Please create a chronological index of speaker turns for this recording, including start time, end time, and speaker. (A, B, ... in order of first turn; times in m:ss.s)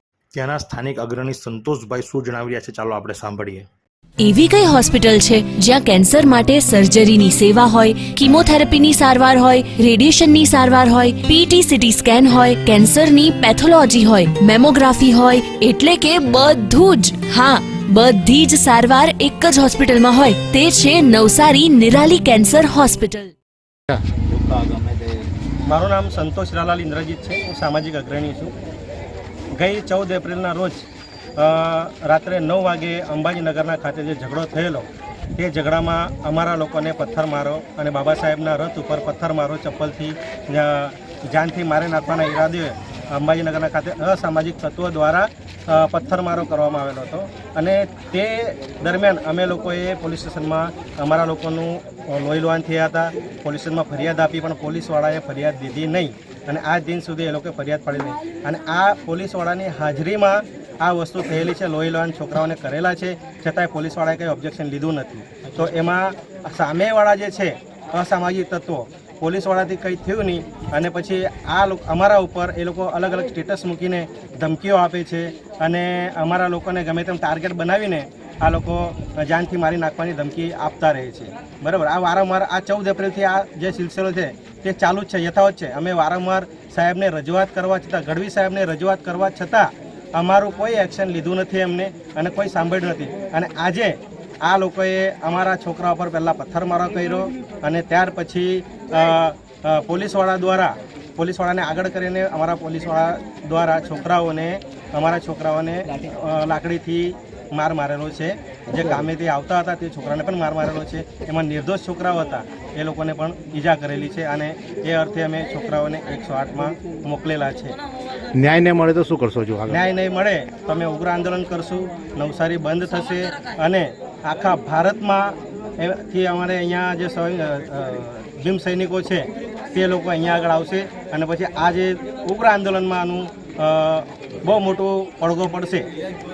0:00.3-0:03.7 A
0:04.2-0:23.3 B
0:23.9-0:25.2 C
0:25.7-0:28.5 D
0:29.6-0:30.8 D
0:31.4-1:57.8 D
1:58.3-1:59.8 C
1:59.7-2:15.9 D